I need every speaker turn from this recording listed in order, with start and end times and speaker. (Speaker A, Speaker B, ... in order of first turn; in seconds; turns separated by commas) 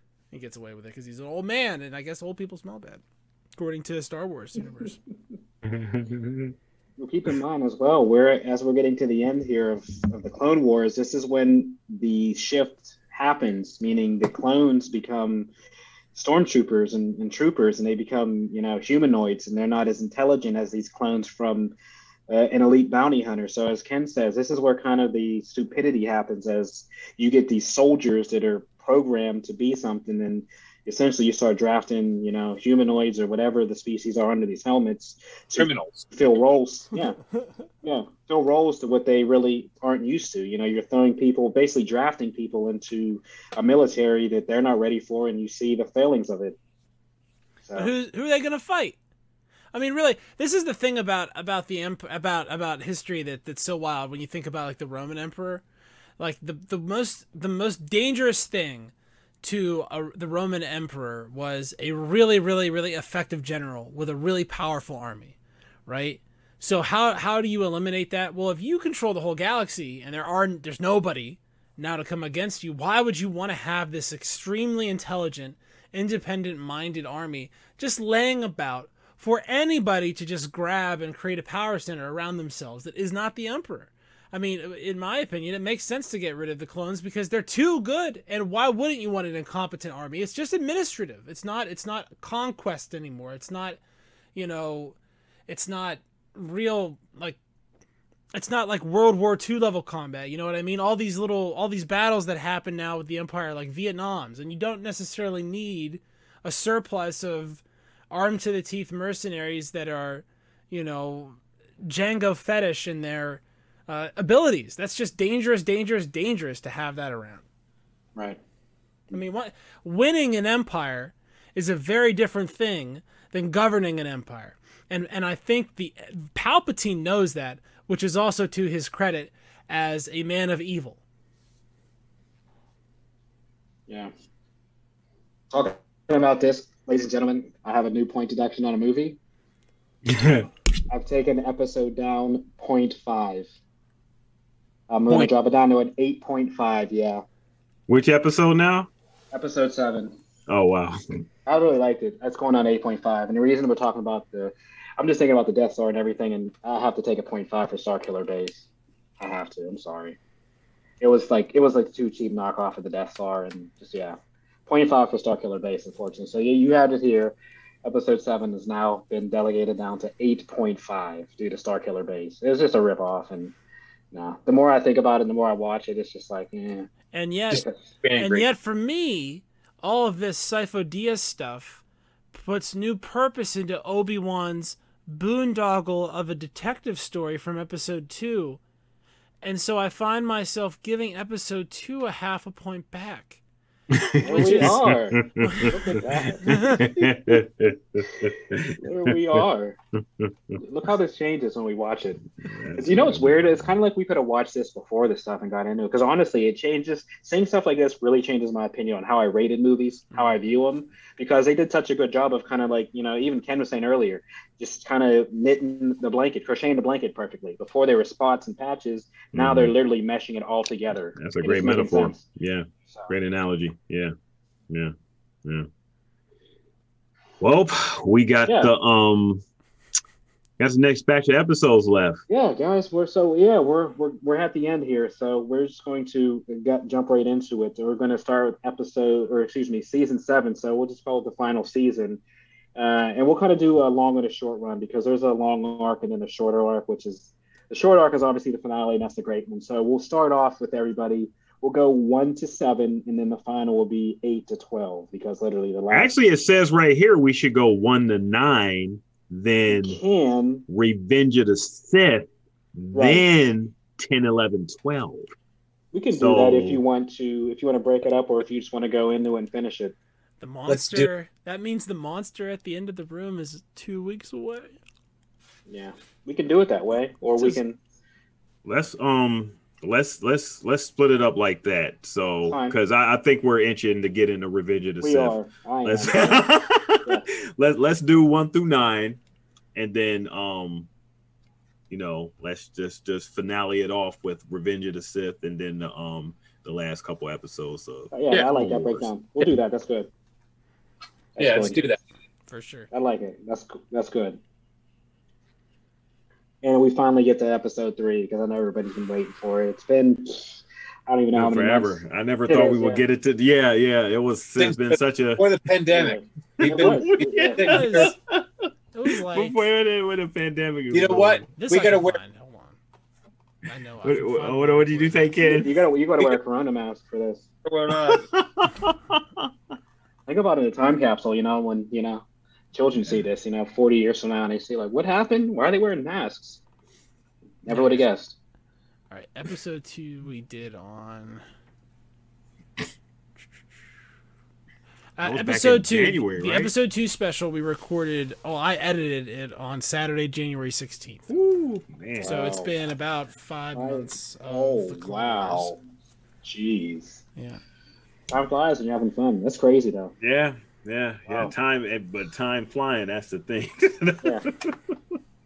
Speaker A: 0.3-3.0, Speaker A: 3.5-5.0, Speaker B: 5.6-6.5, Speaker C: 7.0-15.5, Speaker C: 16.1-21.7, Speaker C: 22.3-37.2, Speaker D: 35.6-36.1, Speaker C: 37.8-46.5, Speaker C: 47.6-47.9, Speaker A: 47.7-49.0, Speaker A: 49.7-55.6, Speaker A: 56.2-65.3, Speaker A: 65.8-93.8, Speaker A: 94.3-95.0, Speaker A: 95.5-97.4, Speaker A: 98.3-117.4, Speaker A: 119.1-131.0, Speaker C: 135.5-139.2, Speaker B: 140.0-140.5, Speaker C: 140.9-143.5, Speaker C: 144.9-147.2, Speaker B: 147.9-148.9, Speaker C: 149.3-150.2, Speaker B: 150.5-151.0, Speaker C: 151.4-158.7, Speaker C: 159.2-160.2, Speaker C: 161.0-173.5, Speaker C: 174.1-176.9, Speaker A: 177.1-188.6, Speaker D: 177.5-178.4, Speaker A: 189.4-193.4, Speaker B: 193.9-195.5, Speaker C: 194.2-197.4, Speaker A: 194.2-194.8, Speaker A: 195.4-195.8, Speaker B: 196.2-199.4, Speaker A: 196.4-196.8, Speaker C: 198.2-199.8, Speaker B: 200.2-200.6, Speaker C: 200.6-202.2, Speaker B: 202.4-203.7, Speaker C: 202.8-222.2, Speaker B: 219.3-219.7, Speaker B: 221.2-224.1, Speaker B: 227.4-229.4, Speaker B: 230.6-232.2, Speaker C: 232.3-242.2, Speaker C: 242.8-256.1, Speaker B: 255.9-260.0, Speaker C: 259.7-260.6, Speaker B: 260.7-265.3, Speaker C: 262.9-263.2, Speaker C: 265.9-269.9, Speaker B: 266.1-266.8, Speaker A: 270.4-274.8, Speaker D: 270.7-271.1, Speaker C: 275.7-277.8, Speaker B: 278.6-289.2, Speaker C: 282.4-282.8, Speaker C: 285.0-286.5, Speaker B: 289.7-290.9, Speaker B: 291.9-299.1, Speaker C: 298.1-300.1, Speaker C: 301.3-301.8, Speaker D: 301.4-302.0, Speaker A: 302.5-302.9, Speaker C: 302.9-304.4, Speaker C: 306.6-313.0, Speaker B: 311.3-315.4, Speaker D: 314.6-318.1, Speaker C: 315.9-317.6, Speaker B: 316.6-321.4, Speaker A: 317.6-318.1, Speaker A: 318.9-319.6, Speaker D: 320.9-322.2, Speaker A: 321.2-322.8, Speaker A: 323.6-325.4, Speaker B: 324.0-325.8, Speaker C: 325.4-327.5, Speaker D: 327.6-328.2, Speaker B: 327.9-329.5, Speaker C: 330.3-336.6, Speaker C: 337.6-338.3, Speaker A: 337.7-338.1, Speaker A: 339.1-341.4, Speaker A: 345.2-351.3, Speaker B: 345.2-346.7, Speaker B: 351.3-352.4, Speaker C: 352.2-352.7, Speaker A: 352.2-355.8, Speaker C: 353.7-355.8, Speaker C: 356.4-357.2, Speaker C: 358.3-360.1, Speaker B: 360.2-365.0